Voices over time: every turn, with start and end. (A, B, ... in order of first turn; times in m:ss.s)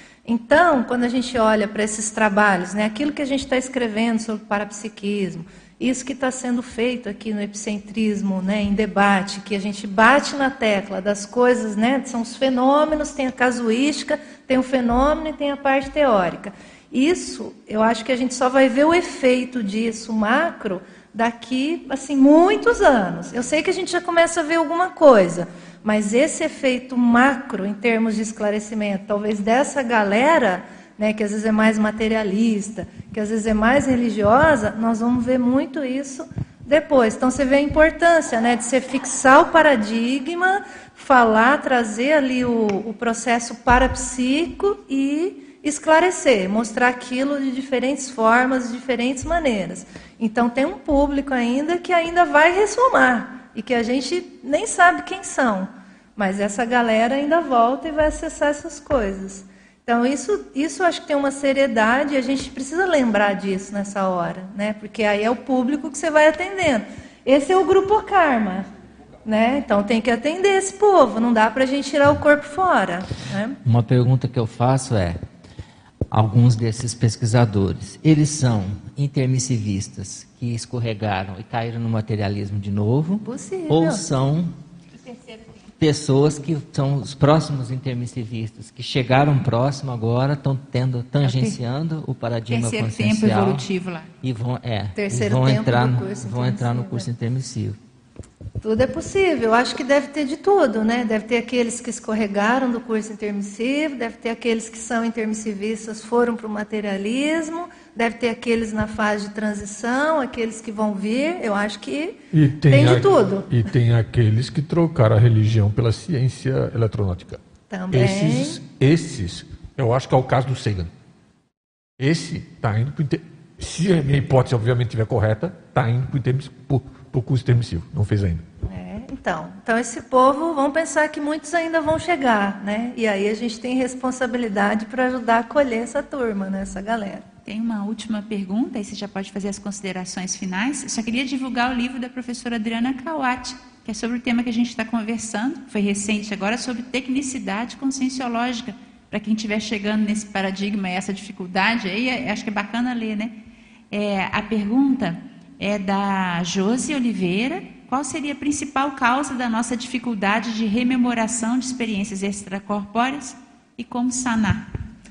0:00.3-1:08.7 A
1:09.2-1:13.6 A
1:13.6-1:15.2 B
1:16.1-1:24.6 B
1:23.2-1:24.1 A
1:25.1-1:25.4 C
1:25.8-1:33.7 B
1:31.2-1:31.6 C
1:32.5-1:34.1 C
1:34.2-1:37.8 B
1:35.0-1:37.1 A
1:38.6-1:53.5 A
1:52.3-1:57.4 D
1:57.7-1:58.6 A
1:57.9-2:00.9 D
2:02.0-2:08.4 D
2:08.6-2:17.2 A
2:17.5-2:33.4 C
2:33.9-2:44.7 C